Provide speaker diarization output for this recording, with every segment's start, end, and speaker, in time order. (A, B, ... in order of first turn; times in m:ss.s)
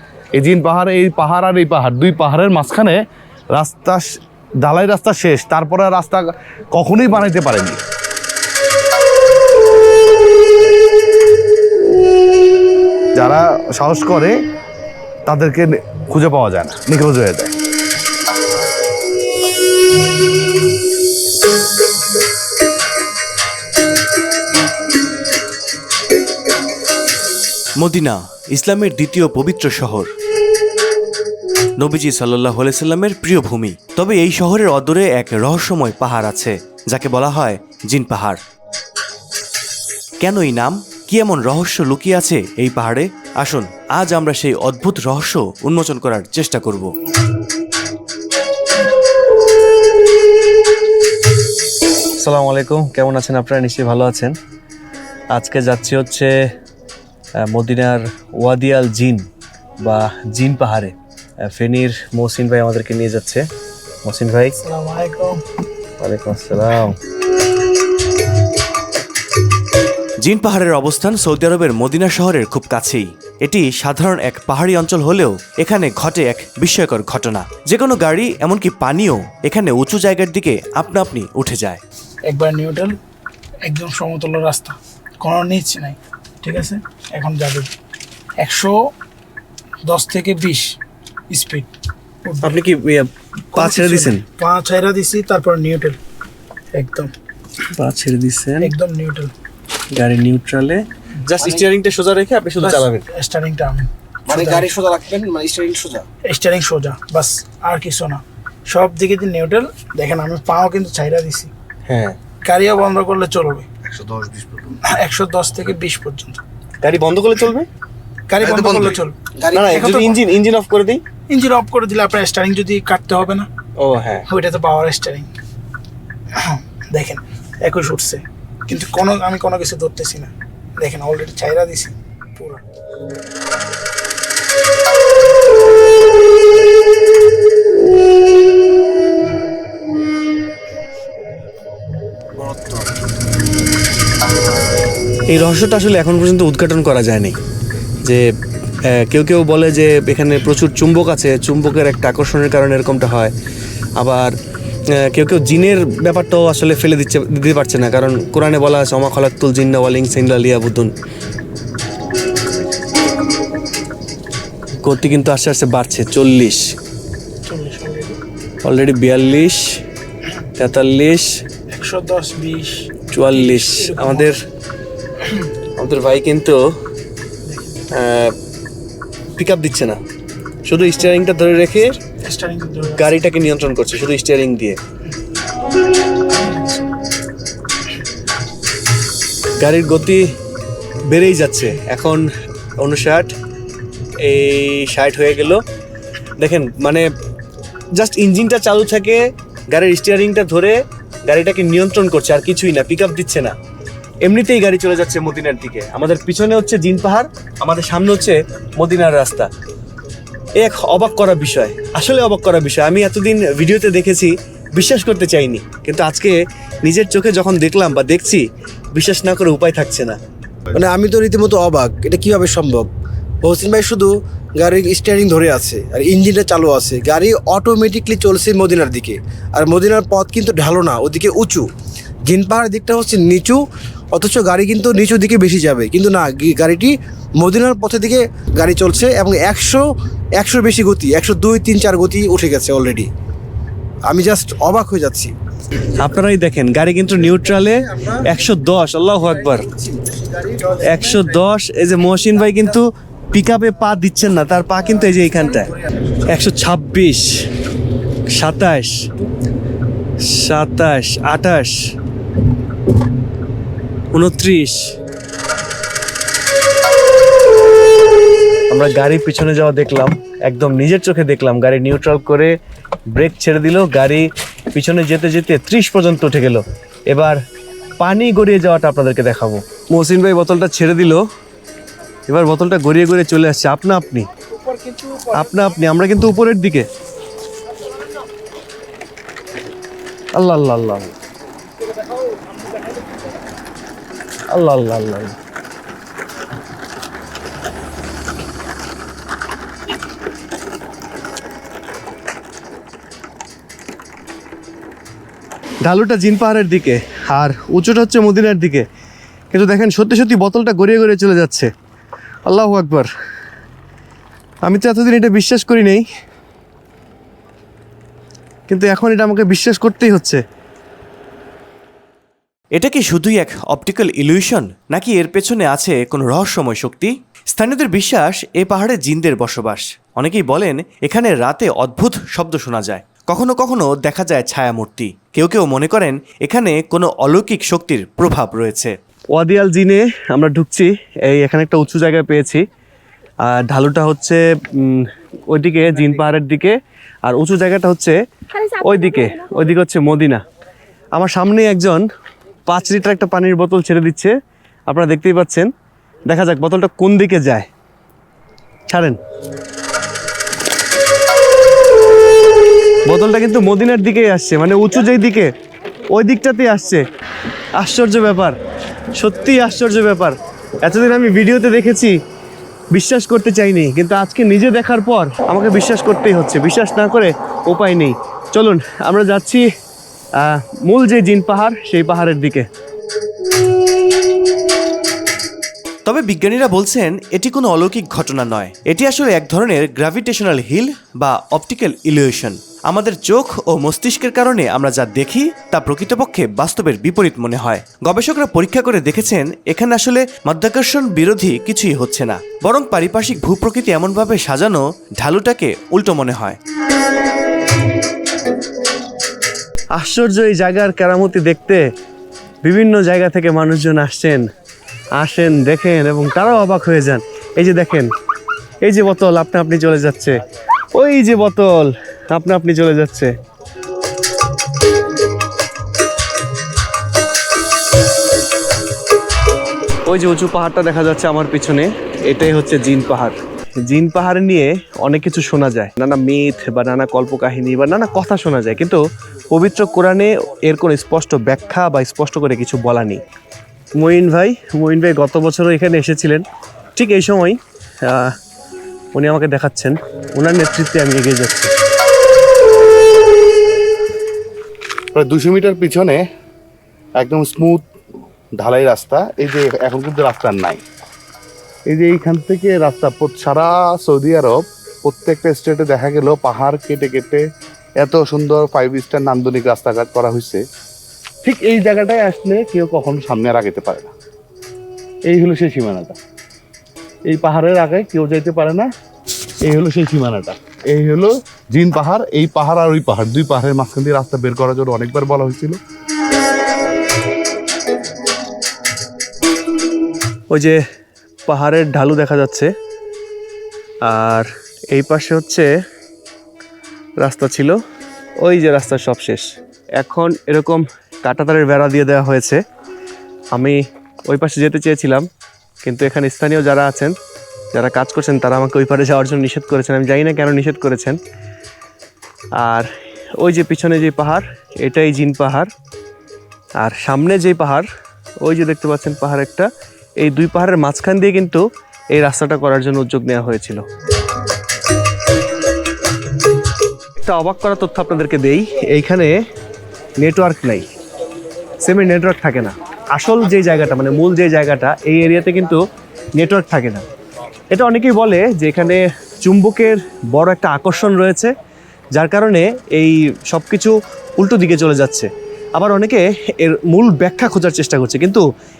0:00.4-0:03.0 A
0:03.5-0:04.0 A
0:04.6-0:07.8 A
0:13.2-0:14.3 A
0:15.2-0:17.5 A
0:27.8-0:30.1 B
0:31.8-0:38.4 B
0:40.2-0:46.9 B
0:52.2-0:54.4 C
0:55.3-0:56.3 C
0:57.4-0:59.2 C
0:59.8-1:03.4 C
1:04.0-1:04.6 C
1:04.6-1:05.4 D
1:06.0-1:07.0 C
1:10.2-1:21.8 B
1:22.2-1:23.0 D
1:23.6-1:27.7 D
1:28.4-1:28.8 D
1:29.8-1:30.7 D
1:31.3-1:31.7 D
1:32.4-1:34.2 C
1:33.5-1:36.0 D
1:36.7-1:37.1 D
1:37.7-1:38.7 C
1:38.6-1:39.3 D
1:39.9-1:43.0 C
1:42.6-1:44.6 D
1:44.3-1:46.0 E
1:46.3-1:51.5 D
1:51.9-1:52.2 C
1:52.4-1:53.6 D
1:53.9-1:54.7 A
1:54.9-1:56.4 D
1:56.8-1:57.7 C
1:58.3-1:59.1 D
1:59.4-2:00.0 E
1:59.5-2:01.0 C
2:01.3-2:03.5 D
2:03.8-2:04.2 C
2:04.3-2:05.3 D
2:06.4-2:12.6 D
2:25.3-2:27.4 C
2:28.8-2:33.3 C
2:34.0-2:34.3 C
2:34.9-2:40.9 C
2:44.8-2:46.6 C
2:47.4-2:48.2 D
2:48.6-2:49.6 C
2:50.6-2:51.2 C
2:51.7-2:54.3 D
2:53.1-2:54.3 C
2:55.8-2:56.6 C
2:57.9-2:58.3 C
2:59.4-3:00.0 C
3:00.6-3:02.0 C
3:02.2-3:03.2 D
3:03.0-3:04.8 C
3:06.3-3:06.9 D
3:09.6-3:10.2 C
3:11.1-3:12.2 C
3:12.8-3:13.3 C
3:14.2-3:15.6 C
3:16.4-3:17.1 C
3:17.9-3:23.5 C
3:24.2-3:29.5 C
3:30.6-3:40.2 C
3:40.7-3:42.9 E
3:43.4-3:51.7 E
3:52.2-4:03.1 E
4:04.0-4:05.3 E
4:06.0-4:09.7 C
4:09.7-4:10.7 E
4:10.8-4:15.7 C
4:16.2-4:17.3 C
4:18.3-4:19.1 C
4:20.2-4:21.7 C
4:24.1-4:24.9 C
4:28.7-4:32.5 C
4:33.1-4:37.4 C
4:38.0-4:41.2 C
4:42.3-4:44.3 C
4:45.3-4:46.9 C
4:50.3-4:51.1 C
4:54.5-4:55.3 C
5:05.8-5:08.8 C
5:09.5-5:11.7 C
5:12.5-5:13.1 C
5:14.6-5:16.0 C
5:18.7-5:20.4 C
5:22.7-5:38.9 B
5:39.3-5:42.6 C
5:43.5-5:50.4 C
5:51.2-5:52.0 C
5:52.7-5:54.3 C
5:54.9-5:55.7 C
5:56.3-5:57.7 C
5:58.9-5:59.2 C
6:03.0-6:05.5 C
6:06.1-6:07.0 C
6:07.8-6:08.5 C
6:09.1-6:12.2 C
6:12.9-6:19.6 C
6:20.4-6:22.6 C
6:26.0-6:46.6 B
6:49.9-6:51.8 C
6:52.6-6:54.4 C
6:55.2-6:58.1 C
6:58.8-7:00.4 C
7:00.9-7:03.3 C
7:10.0-7:23.2 C
7:24.0-7:26.4 C
7:27.0-7:28.3 C
7:29.1-7:31.7 C
7:35.1-7:36.2 A
7:37.2-7:37.8 A
7:38.6-7:40.8 A
7:41.9-7:47.4 A
7:48.0-7:50.6 A
7:51.4-7:54.1 A
7:55.3-7:56.2 A
7:57.3-7:58.9 A
7:59.6-8:05.8 A
8:10.5-8:10.8 C
8:11.5-8:12.7 C
8:14.0-8:15.7 C
8:17.2-8:17.8 C
8:18.4-8:22.6 C
8:23.5-8:25.2 C
8:25.8-8:27.1 C
8:27.7-8:31.2 C
8:32.6-8:35.7 C
8:36.8-8:37.9 C
8:38.4-8:39.7 C
8:40.2-8:43.8 C
8:47.2-8:49.4 C
8:50.2-8:50.8 C
8:51.8-8:55.8 C
8:56.4-8:57.0 C
8:57.7-9:01.5 C
9:02.1-9:08.4 C